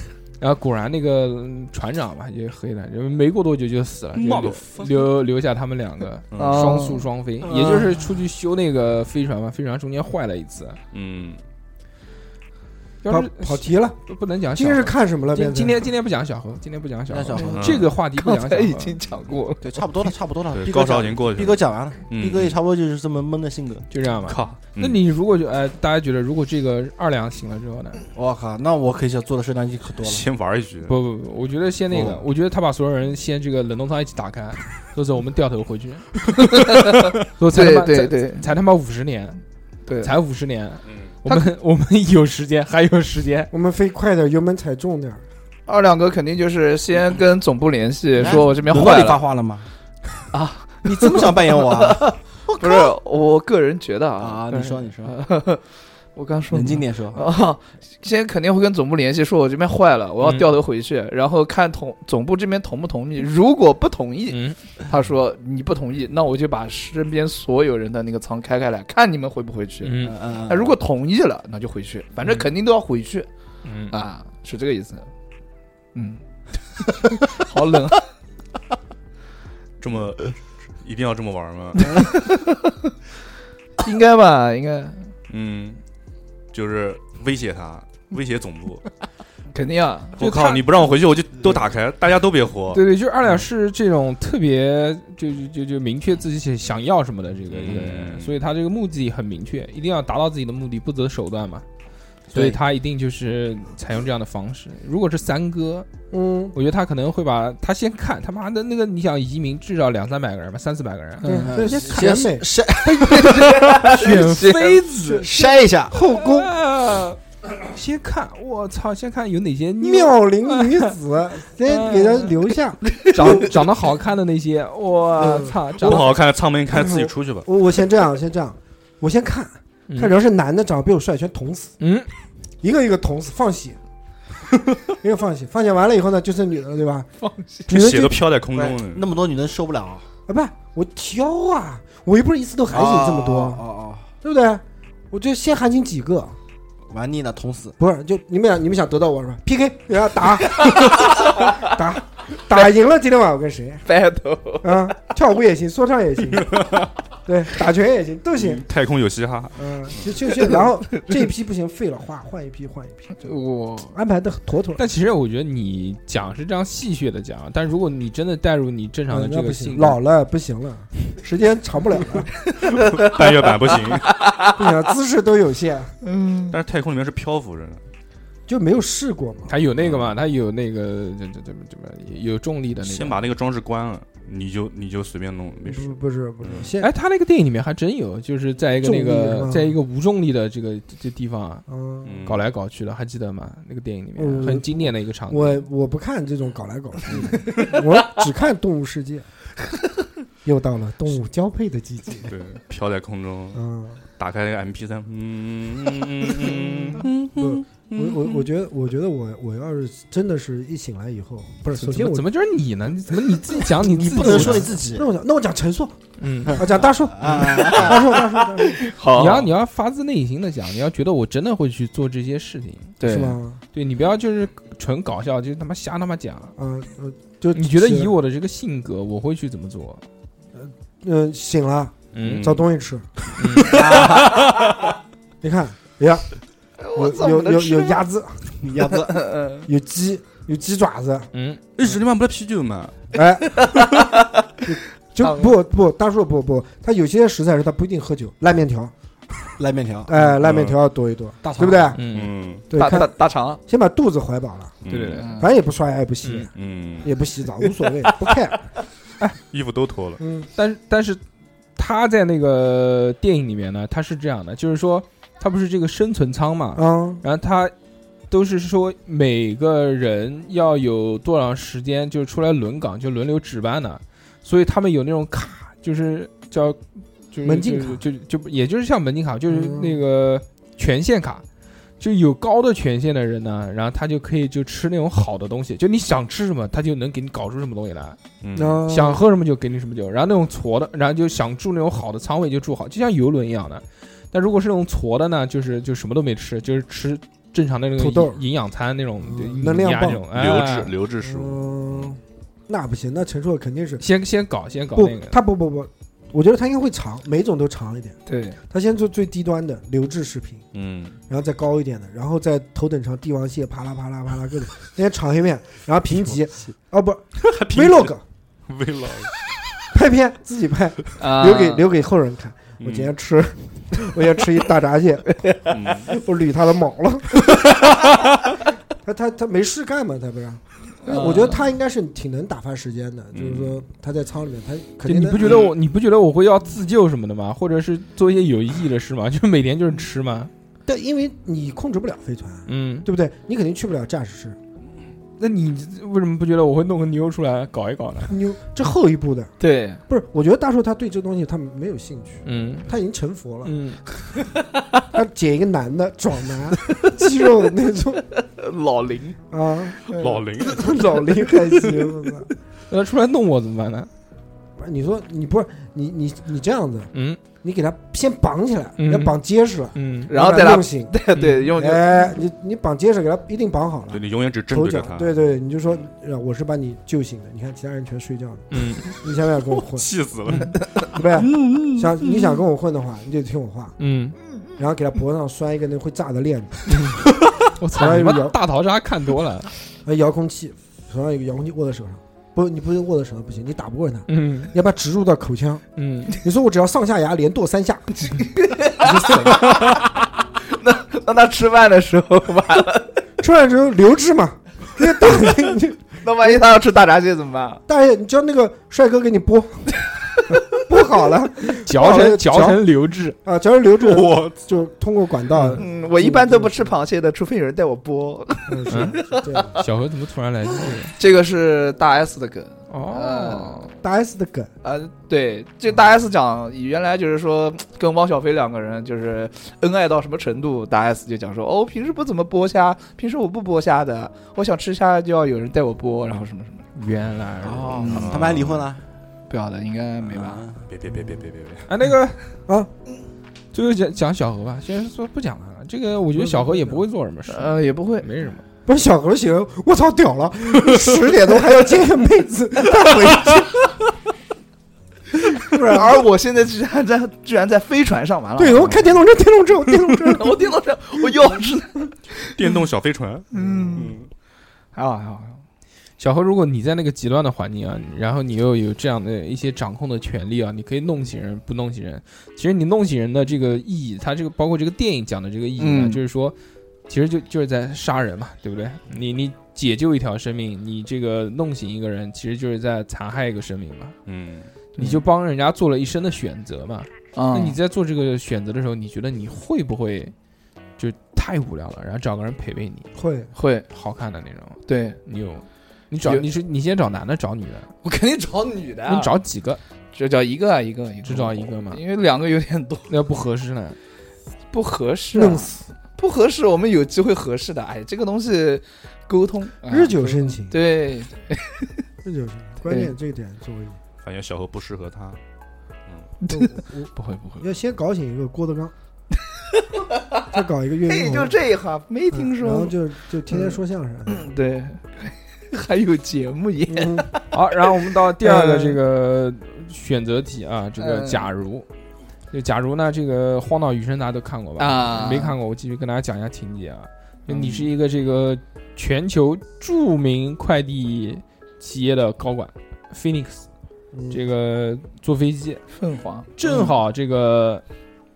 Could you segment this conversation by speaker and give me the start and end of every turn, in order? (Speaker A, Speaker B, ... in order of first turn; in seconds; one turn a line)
Speaker A: 0.4-10.8
Speaker B: 4.1-5.1
Speaker B: 6.3-6.8
Speaker C: 6.3-7.0
Speaker D: 7.5-7.9
Speaker B: 10.9-11.4
Speaker A: 13.0-19.0
Speaker E: 13.1-14.0
Speaker E: 14.5-15.8
Speaker D: 17.1-17.8
Speaker C: 17.3-20.1
Speaker B: 17.5-17.9
Speaker D: 19.6-23.9
Speaker B: 20.5-22.6
Speaker A: 23.9-28.0
Speaker B: 24.2-25.0
Speaker D: 28.1-30.2
Speaker B: 30.0-31.0
Speaker A: 30.8-39.4
Speaker C: 36.5-36.9
Speaker C: 37.5-38.4
Speaker C: 39.9-40.1
Speaker A: 40.0-43.5
Speaker E: 43.5-45.2
Speaker C: 45.7-49.2
Speaker D: 48.1-49.7
Speaker C: 50.3-55.6
Speaker D: 50.8-52.9
Speaker D: 54.2-55.1
Speaker C: 56.1-73.3
Speaker D: 56.5-57.2
Speaker A: 60.2-60.5
Speaker A: 64.3-64.6
Speaker A: 69.8-70.2
Speaker D: 70.0-70.7
Speaker A: 73.6-73.9
Speaker C: 73.9-75.1
Speaker C: 75.9-76.2
Speaker C: 76.7-78.1
Speaker B: 79.8-82.0
Speaker C: 81.8-82.7
Speaker C: 83.8-85.1
Speaker B: 85.3-85.8
Speaker B: 86.5-88.8
Speaker C: 89.5-90.2
Speaker B: 90.2-92.8
Speaker A: 90.2-90.7
Speaker A: 92.7-101.7
Speaker B: 97.5-98.4
Speaker A: 102.3-105.9
Speaker D: 102.3-102.6
Speaker E: 106.1-106.5
Speaker A: 106.5-111.5
Speaker E: 111.2-112.5
Speaker D: 111.3-114.1
Speaker C: 113.0-115.2
Speaker A: 113.0-115.3
Speaker E: 115.0-116.5
Speaker D: 115.2-116.0
Speaker A: 115.9-120.9
Speaker E: 119.8-123.5
Speaker A: 121.7-122.4
Speaker A: 123.0-126.1
Speaker E: 125.2-126.1
Speaker B: 125.8-127.5
Speaker E: 126.7-131.7
Speaker A: 131.8-132.1
Speaker E: 132.6-133.8
Speaker E: 135.0-137.1
Speaker C: 137.2-137.7
Speaker E: 137.7-138.3
Speaker B: 137.7-139.1
Speaker D: 138.5-140.1
Speaker E: 140.3-143.6
Speaker D: 142.7-144.1
Speaker E: 144.2-146.3
Speaker D: 146.9-147.7
Speaker E: 147.8-153.8
Speaker C: 153.8-154.8
Speaker E: 154.6-156.7
Speaker B: 156.4-156.9
Speaker E: 157.2-158.6
Speaker B: 158.4-160.0
Speaker E: 159.6-163.3
Speaker C: 163.2-163.9
Speaker E: 163.9-164.8
Speaker A: 164.8-170.0
Speaker E: 169.1-172.3
Speaker B: 172.8-174.2
Speaker C: 172.8-174.6
Speaker E: 174.5-175.9
Speaker C: 176.0-176.6
Speaker B: 176.5-177.8
Speaker E: 178.5-179.5
Speaker A: 179.5-183.2
Speaker B: 179.8-180.1
Speaker B: 182.8-186.7
Speaker E: 185.7-186.9
Speaker A: 186.8-191.6
Speaker E: 188.8-189.8
Speaker E: 191.7-192.2
Speaker B: 192.0-192.4
Speaker A: 192.2-195.6
Speaker E: 194.2-199.3
Speaker B: 197.1-197.7
Speaker E: 200.4-202.3
Speaker B: 202.2-203.6
Speaker E: 203.5-204.0
Speaker B: 204.2-208.4
Speaker E: 207.4-212.3
Speaker A: 211.7-214.7
Speaker D: 213.8-215.1
Speaker E: 214.0-218.9
Speaker A: 216.2-216.7
Speaker D: 216.6-218.0
Speaker C: 217.4-219.5
Speaker A: 219.1-222.9
Speaker C: 223.0-223.4
Speaker E: 223.0-223.6
Speaker A: 223.7-226.5
Speaker E: 226.6-228.1
Speaker A: 227.5-230.0
Speaker E: 230.5-233.1
Speaker A: 232.1-232.5
Speaker B: 232.2-232.6
Speaker A: 233.4-234.0
Speaker B: 233.6-234.7
Speaker D: 233.6-234.5
Speaker E: 235.4-236.2
Speaker C: 236.8-238.0
Speaker E: 236.9-238.5
Speaker D: 238.6-239.3
Speaker C: 239.1-239.6
Speaker E: 239.6-241.3
Speaker A: 241.3-241.6
Speaker B: 241.8-243.0
Speaker E: 243.1-243.6
Speaker C: 243.6-244.3
Speaker E: 244.7-248.9
Speaker C: 245.2-245.5
Speaker D: 249.6-250.3
Speaker E: 250.1-252.0
Speaker B: 250.4-250.8
Speaker D: 251.4-252.0
Speaker A: 251.9-252.3
Speaker B: 252.0-252.7
Speaker E: 252.7-253.1
Speaker C: 252.7-253.6
Speaker E: 253.7-254.8
Speaker B: 254.8-255.4
Speaker A: 254.9-255.3
Speaker C: 255.1-255.5
Speaker E: 255.3-258.6
Speaker A: 256.2-256.5
Speaker B: 256.5-257.1
Speaker B: 259.5-260.2
Speaker E: 260.2-260.5
Speaker A: 260.6-261.2
Speaker A: 261.8-267.7
Speaker E: 266.8-267.2
Speaker A: 268.3-281.4
Speaker E: 277.4-278.0
Speaker E: 279.5-280.0
Speaker A: 282.0-288.2
Speaker B: 288.4-288.8
Speaker E: 288.5-289.2
Speaker A: 288.8-300.9
Speaker E: 298.0-298.4
Speaker E: 299.2-300.3
Speaker B: 300.3-302.2
Speaker E: 301.2-304.0
Speaker A: 304.0-305.4
Speaker E: 304.9-308.2
Speaker C: 308.3-308.6
Speaker E: 308.7-310.6
Speaker B: 310.7-311.2
Speaker E: 311.3-318.2
Speaker B: 317.4-318.1
Speaker B: 318.7-319.3
Speaker E: 319.9-325.4
Speaker C: 321.2-321.9
Speaker B: 322.8-323.1
Speaker C: 325.4-325.7
Speaker B: 325.7-326.1
Speaker E: 326.0-327.6
Speaker E: 329.0-335.5
Speaker C: 331.0-331.6
Speaker B: 333.3-333.8
Speaker A: 335.1-340.5
Speaker E: 340.9-344.6
Speaker A: 342.7-343.1
Speaker A: 345.4-348.4
Speaker E: 348.3-349.5
Speaker C: 349.6-350.0
Speaker E: 350.1-353.7
Speaker A: 352.4-352.9
Speaker A: 353.6-354.0
Speaker E: 355.1-358.2
Speaker C: 358.4-359.4
Speaker E: 359.5-362.5
Speaker B: 360.1-361.0
Speaker A: 362.9-364.1
Speaker E: 364.8-367.1
Speaker A: 367.1-367.4
Speaker E: 367.6-371.1
Speaker A: 369.0-369.4
Speaker A: 369.9-370.3
Speaker C: 370.3-372.3
Speaker A: 371.3-371.7
Speaker E: 371.7-378.7
Speaker B: 374.1-375.3
Speaker A: 378.7-379.1
Speaker E: 379.2-380.1
Speaker B: 379.9-380.8
Speaker E: 381.1-383.9
Speaker A: 384.0-384.4
Speaker E: 384.8-386.9
Speaker A: 386.9-389.7
Speaker E: 387.9-388.6
Speaker E: 390.0-399.9
Speaker A: 394.3-394.7
Speaker A: 395.9-396.4
Speaker C: 398.3-403.2
Speaker E: 403.4-406.6
Speaker C: 406.2-407.8
Speaker E: 407.9-410.0
Speaker E: 410.7-412.9
Speaker A: 411.8-413.4
Speaker E: 413.4-416.9
Speaker B: 414.0-414.6
Speaker C: 415.7-419.8
Speaker E: 418.7-419.8
Speaker A: 418.9-419.2
Speaker A: 419.7-421.1
Speaker C: 421.1-423.8
Speaker A: 422.9-423.9
Speaker E: 424.0-424.7
Speaker C: 424.8-436.9
Speaker A: 436.9-438.3
Speaker D: 437.6-439.0
Speaker C: 438.0-438.3
Speaker B: 438.0-438.9
Speaker C: 439.5-440.6
Speaker D: 440.3-440.8
Speaker B: 440.9-441.9
Speaker A: 441.9-442.4
Speaker A: 443.7-448.6
Speaker E: 446.4-447.0
Speaker C: 447.5-448.3
Speaker E: 448.9-453.8
Speaker E: 455.7-456.2
Speaker C: 455.7-459.2
Speaker E: 458.6-460.7
Speaker C: 460.2-462.7
Speaker B: 462.5-464.3
Speaker C: 463.5-464.1
Speaker E: 463.8-464.1
Speaker C: 464.9-465.6
Speaker A: 466.2-476.6
Speaker C: 475.8-476.2
Speaker A: 477.1-484.1
Speaker B: 484.2-484.7
Speaker A: 484.9-490.3
Speaker C: 485.0-485.2
Speaker C: 487.3-487.8
Speaker A: 491.0-493.1
Speaker E: 493.1-493.5
Speaker C: 493.5-493.9
Speaker A: 493.9-497.9
Speaker C: 494.9-495.2
Speaker C: 498.0-499.3
Speaker A: 499.1-499.8
Speaker C: 500.1-503.1
Speaker A: 501.2-502.0
Speaker A: 503.1-504.0
Speaker C: 504.7-511.9
Speaker E: 505.3-505.8
Speaker E: 509.9-510.8
Speaker E: 512.2-514.0
Speaker C: 512.8-513.1
Speaker B: 514.2-515.4
Speaker C: 516.4-517.6
Speaker E: 516.5-518.9
Speaker C: 519.7-520.4
Speaker E: 520.5-521.6
Speaker C: 521.1-527.5
Speaker E: 522.3-524.5
Speaker E: 526.9-527.3
Speaker A: 527.5-531.9
Speaker C: 528.4-529.0
Speaker C: 531.0-531.4
Speaker A: 532.5-543.6
Speaker C: 534.8-535.5
Speaker C: 537.5-537.8
Speaker E: 544.1-544.4
Speaker A: 544.3-545.8
Speaker C: 546.0-546.5
Speaker A: 546.6-547.8